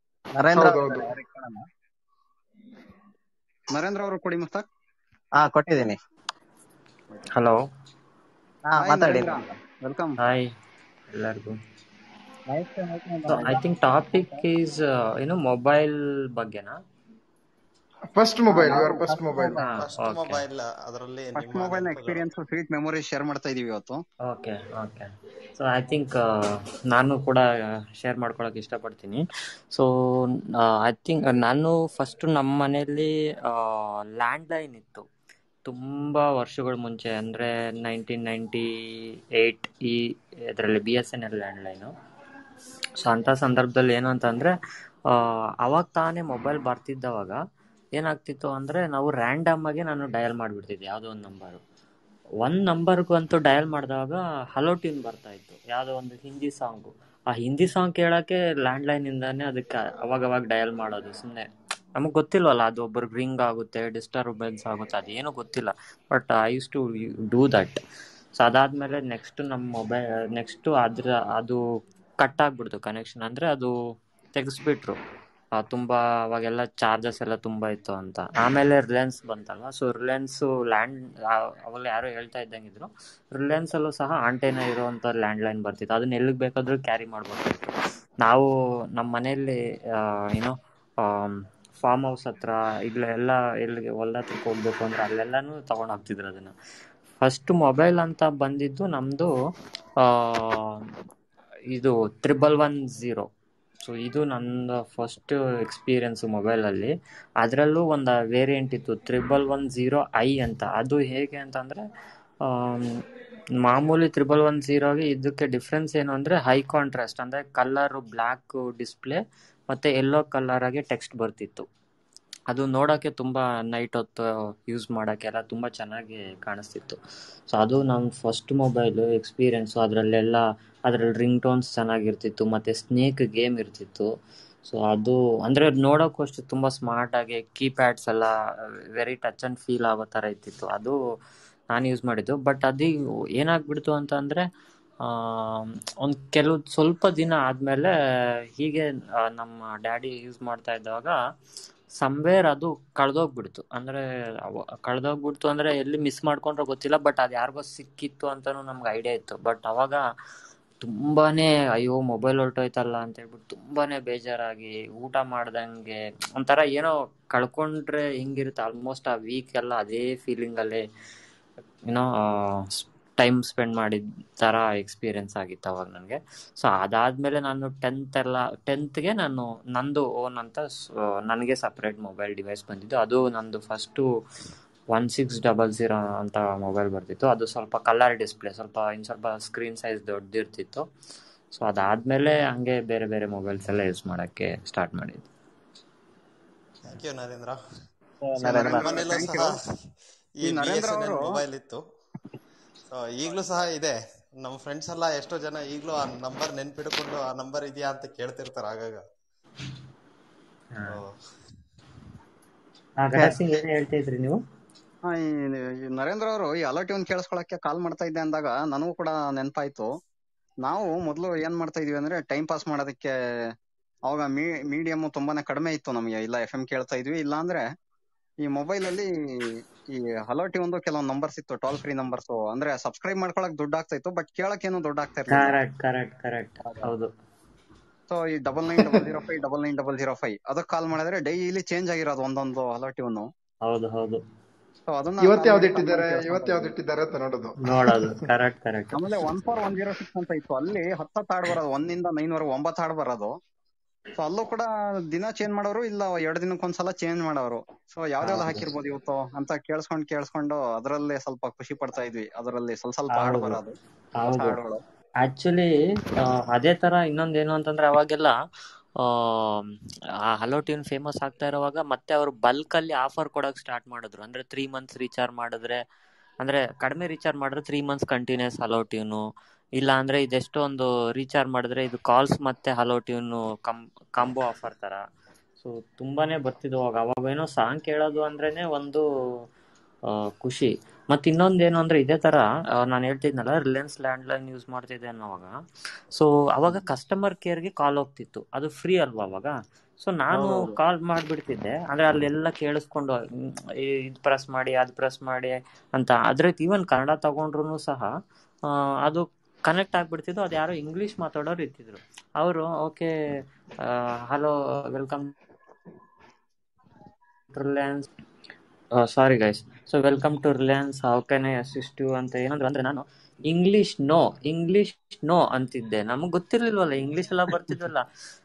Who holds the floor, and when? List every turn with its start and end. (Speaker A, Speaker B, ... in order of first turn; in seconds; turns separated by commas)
Speaker A: 0.4-1.6, Speaker B: 0.5-1.1, Speaker C: 3.7-4.6, Speaker A: 5.3-6.0, Speaker D: 7.3-7.6, Speaker A: 8.7-9.5, Speaker C: 8.8-10.2, Speaker D: 10.2-10.5, Speaker D: 11.1-11.6, Speaker A: 12.5-14.5, Speaker D: 13.2-16.8, Speaker B: 18.1-19.6, Speaker A: 18.5-19.6, Speaker C: 18.6-18.9, Speaker D: 19.5-20.4, Speaker E: 19.6-22.2, Speaker C: 21.4-24.0, Speaker D: 24.3-27.4, Speaker D: 28.0-29.2, Speaker D: 30.6-35.0, Speaker D: 35.6-38.6, Speaker D: 39.4-41.9, Speaker D: 43.0-44.5, Speaker D: 45.1-47.4, Speaker D: 47.9-51.6, Speaker D: 52.4-67.8, Speaker D: 68.3-71.6, Speaker D: 72.2-73.7, Speaker D: 74.3-75.0, Speaker D: 75.5-81.1, Speaker D: 81.7-87.7, Speaker D: 89.0-96.5, Speaker D: 97.2-99.3, Speaker D: 100.0-100.8, Speaker D: 101.7-103.3, Speaker D: 103.8-111.8, Speaker D: 112.4-113.0, Speaker D: 113.6-121.7, Speaker D: 122.5-127.0, Speaker D: 127.5-134.1, Speaker D: 134.7-138.3, Speaker D: 138.9-140.9, Speaker D: 141.7-144.4, Speaker D: 145.1-147.9, Speaker D: 148.6-151.2, Speaker D: 152.0-154.0, Speaker D: 154.8-160.0, Speaker D: 160.8-170.8, Speaker D: 171.9-180.7, Speaker D: 181.2-184.0, Speaker D: 184.9-190.8, Speaker D: 191.5-195.2, Speaker E: 196.9-197.6, Speaker A: 198.2-198.9, Speaker C: 198.4-199.5, Speaker E: 198.6-199.6, Speaker E: 200.4-201.8, Speaker C: 200.4-201.3, Speaker E: 202.9-209.0, Speaker E: 210.9-211.2, Speaker D: 213.0-214.4, Speaker C: 215.1-219.9, Speaker C: 220.6-223.5, Speaker C: 224.1-227.7, Speaker C: 228.4-235.5, Speaker D: 235.3-237.1, Speaker C: 238.1-243.3, Speaker D: 243.6-244.2, Speaker C: 244.9-246.7, Speaker B: 245.2-248.2, Speaker D: 247.6-249.3, Speaker C: 248.9-253.3, Speaker C: 254.2-263.7, Speaker D: 258.2-258.7, Speaker D: 263.1-263.6, Speaker D: 264.2-264.6, Speaker C: 264.3-264.8, Speaker D: 265.2-268.3, Speaker D: 269.0-269.8, Speaker D: 270.3-275.8, Speaker D: 276.4-279.2, Speaker D: 279.8-285.0, Speaker D: 285.6-289.0, Speaker D: 290.4-295.5, Speaker D: 296.1-303.2, Speaker A: 300.3-300.7, Speaker D: 303.8-308.1, Speaker D: 309.1-313.1, Speaker D: 313.8-315.3, Speaker D: 317.5-318.1, Speaker D: 319.0-328.0